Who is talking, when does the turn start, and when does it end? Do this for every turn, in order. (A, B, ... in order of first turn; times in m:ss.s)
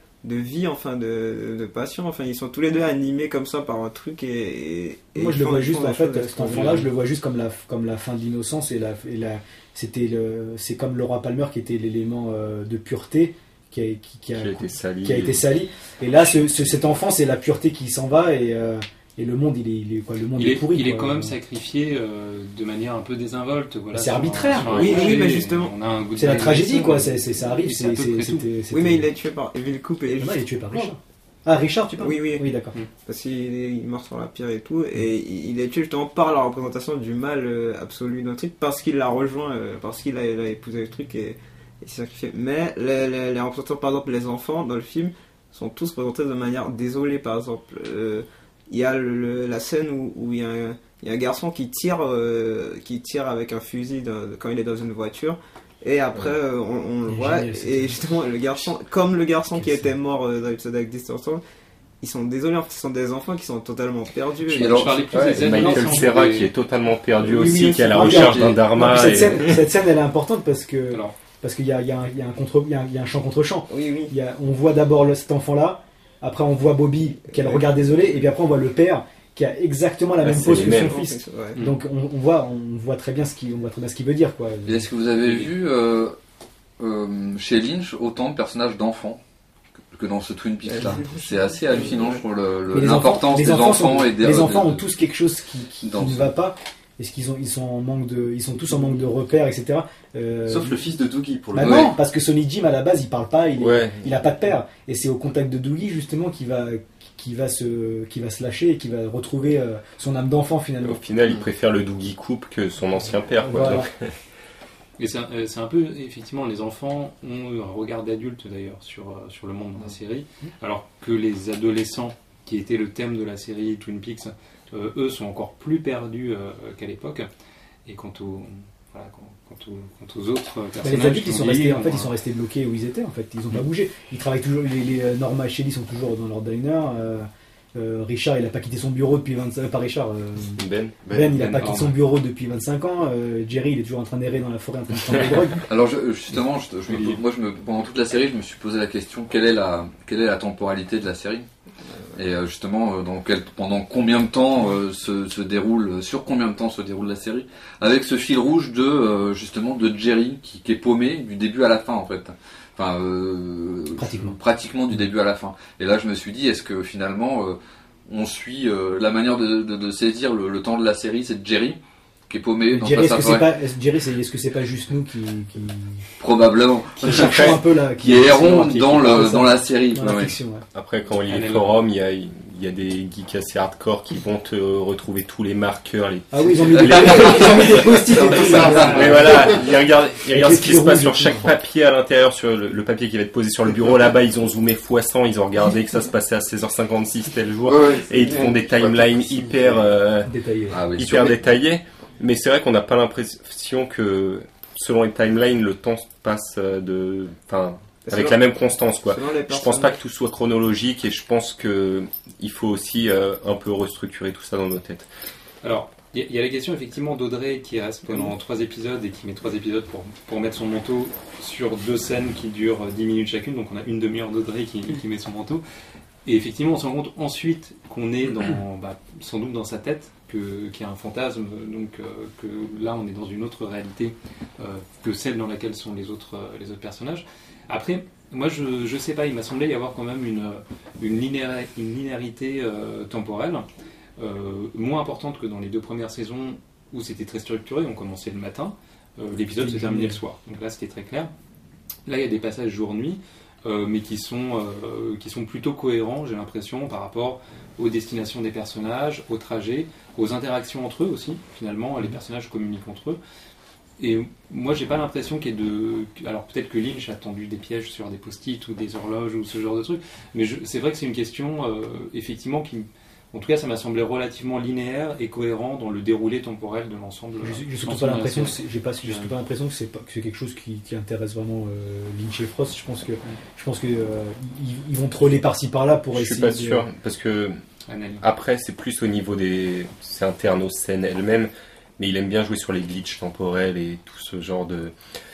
0:00.2-0:06.9 A
0:05.2-0:21.4 B
0:06.5-0:06.9 C
0:14.4-0:15.5 D
0:16.2-0:16.6 D
0:20.4-0:28.5 C
0:23.9-0:24.9 B
0:24.6-0:25.0 D
0:24.7-0:25.7 A
0:26.2-0:29.1 B
0:28.7-0:30.9 A
0:30.1-0:32.8 B
0:32.0-1:01.4 A
0:57.1-0:58.0 B
0:59.5-0:59.9 B
1:02.0-1:06.0 A
1:04.5-1:05.2 E
1:04.5-1:06.5 C
1:05.1-1:09.7 D
1:07.2-1:08.4 A
1:07.4-1:24.9 B
1:08.2-1:08.6 E
1:13.7-1:14.1 A
1:17.3-1:17.7 A
1:20.2-1:21.0 D
1:20.3-1:21.6 A
1:24.6-1:26.2 E
1:26.8-1:29.2 E
1:29.9-1:34.8 E
1:30.6-1:32.2 A
1:32.7-1:40.8 B
1:35.8-1:36.3 E
1:40.5-1:41.9 F
1:41.6-1:51.0 B
1:41.6-1:41.9 E
1:43.6-1:44.1 D
1:50.8-1:54.1 D
1:53.4-1:53.9 B
1:55.0-2:07.3 C
2:07.9-2:12.1 C
2:10.8-2:25.6 B
2:20.6-2:21.0 D
2:21.0-2:21.4 F
2:21.3-2:22.0 C
2:25.6-2:31.5 E
2:32.2-2:53.5 E
2:44.0-2:44.4 B
2:52.7-2:56.1 B
2:56.2-3:00.4 E
2:57.0-3:00.6 B
2:57.1-2:57.6 D
3:00.7-3:20.3 D
3:01.3-3:01.8 C
3:06.3-3:09.6 B
3:06.9-3:07.6 E
3:08.2-3:09.7 F
3:10.3-3:11.5 B
3:17.7-3:20.0 F
3:20.2-3:20.8 B
3:20.7-3:21.4 E
3:20.9-3:35.1 D
3:28.0-3:30.0 A
3:35.6-3:45.6 C
3:46.2-4:03.6 C
4:04.2-4:11.3 C
4:09.4-4:10.2 B
4:12.1-4:23.2 C
4:24.0-4:39.3 C
4:37.4-4:46.8 B
4:46.1-4:47.6 D
4:47.9-4:48.2 C
4:48.2-4:54.9 D